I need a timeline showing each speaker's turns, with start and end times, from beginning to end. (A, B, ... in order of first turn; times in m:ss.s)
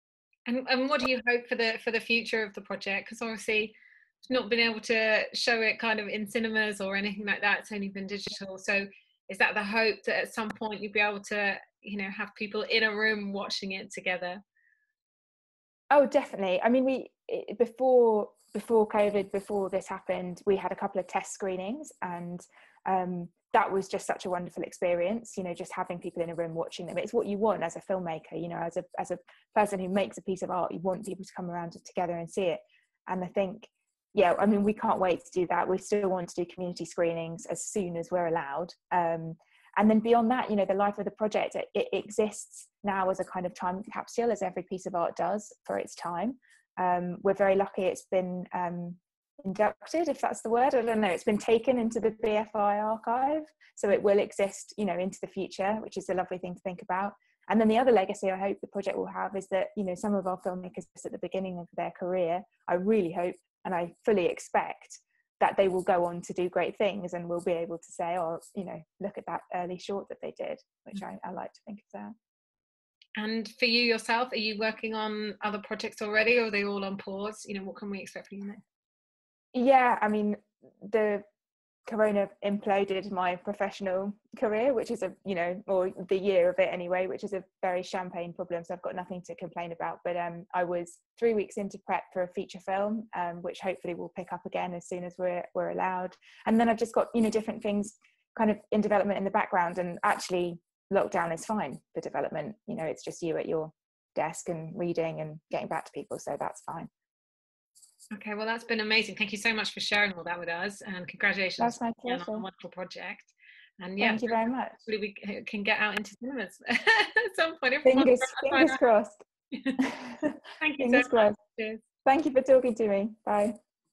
0:00.5-0:14.4 A
0:15.9-1:12.1 B
1:13.2-1:18.6 A
1:19.5-1:21.2 B
1:21.9-1:46.9 B
1:48.1-1:58.8 A
1:51.6-1:52.4 B
1:54.0-1:54.8 B
1:57.8-1:59.2 B
1:59.5-1:59.8 A
1:59.8-2:01.4 B
2:00.6-2:01.8 A
2:02.0-2:03.5 B